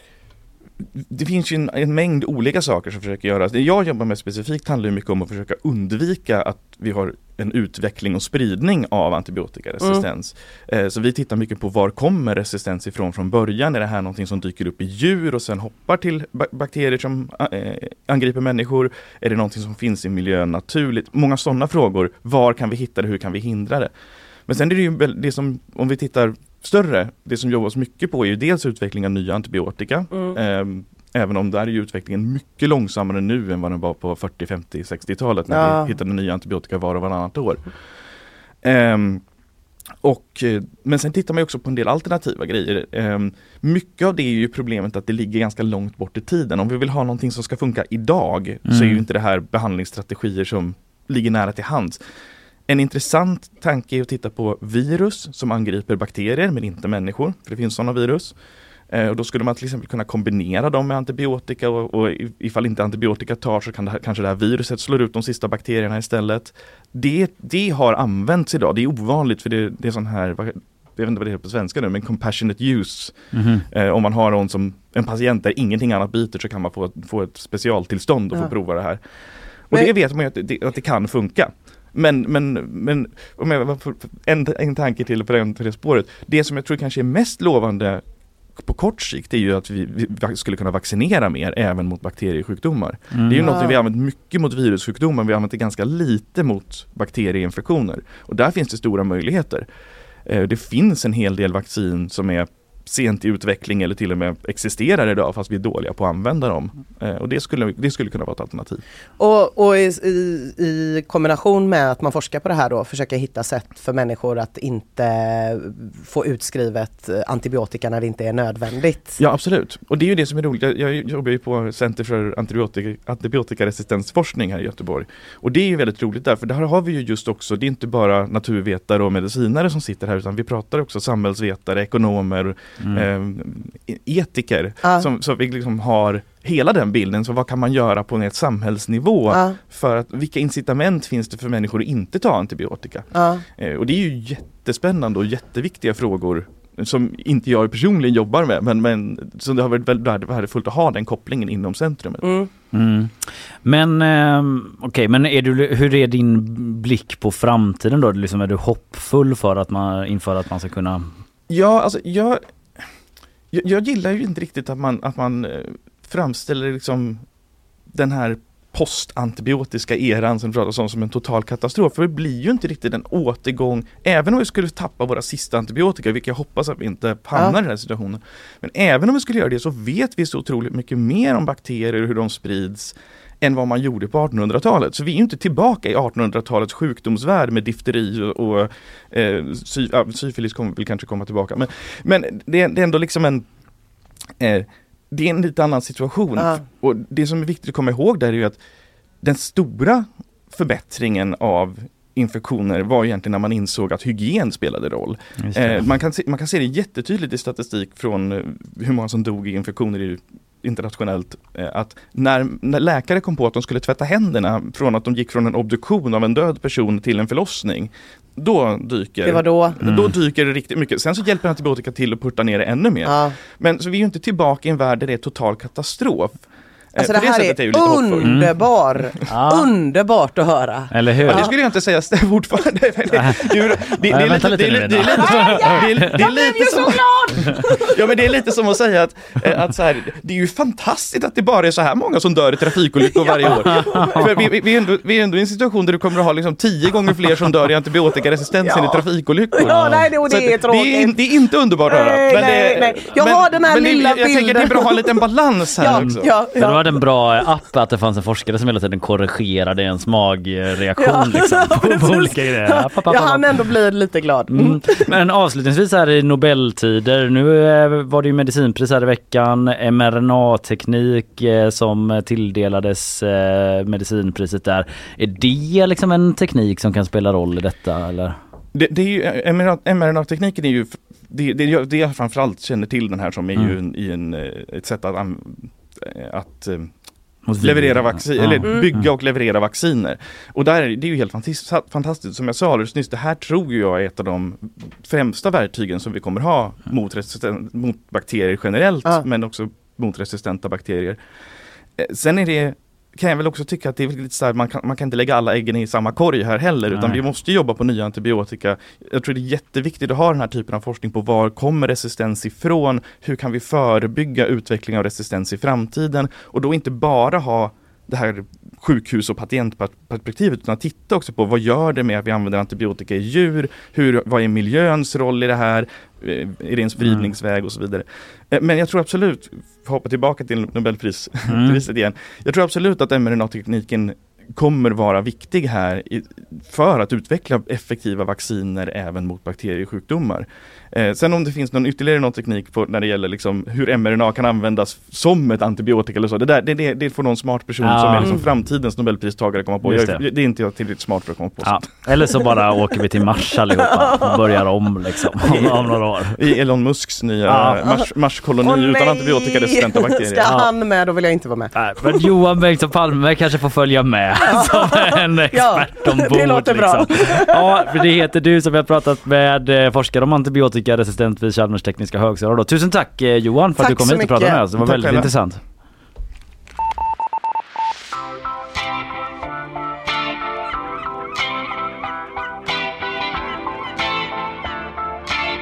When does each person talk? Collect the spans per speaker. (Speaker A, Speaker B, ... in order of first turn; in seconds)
Speaker A: 1.0-23.9, 24.5-37.6, 38.6-39.2, 40.0-52.0, 52.7-58.3, 58.9-73.2, 73.7-79.0, 79.7-88.0, 88.5-99.7, 100.2-108.8, 119.2-143.1, 143.6-152.2, 161.5-162.4, 163.5-167.2, 167.9-193.4, 194.4-198.6, 199.2-226.4, 226.9-228.4, 231.2-256.3, 278.7-286.9, 287.6-301.2, 302.0-351.9, 356.4-360.5, 374.7-375.3
Speaker B: 35.5-35.9, 93.4-93.8, 109.2-119.2, 139.3-139.6, 143.1-143.4, 152.2-152.5, 219.2-219.8, 223.0-223.3, 227.0-231.5, 235.1-237.8, 243.0-244.2, 248.6-251.2, 251.8-255.2, 255.8-257.0, 261.0-265.1, 353.7-354.5, 358.6-362.2, 364.4-367.9, 373.8-374.6
Speaker C: 48.6-49.0, 73.3-73.6, 93.1-93.5, 132.8-133.1, 152.7-153.1, 153.6-161.1, 205.4-205.9, 219.8-220.1, 228.2-228.6, 229.3-229.7, 230.9-231.5, 233.1-236.3, 243.4-244.3, 249.6-250.1, 255.8-263.6, 264.5-278.4, 287.4-289.1, 306.9-307.2, 327.0-327.3, 331.5-331.8, 347.8-348.4, 349.8-350.2, 351.6-356.4, 357.4-357.8, 360.4-360.7, 361.7-375.6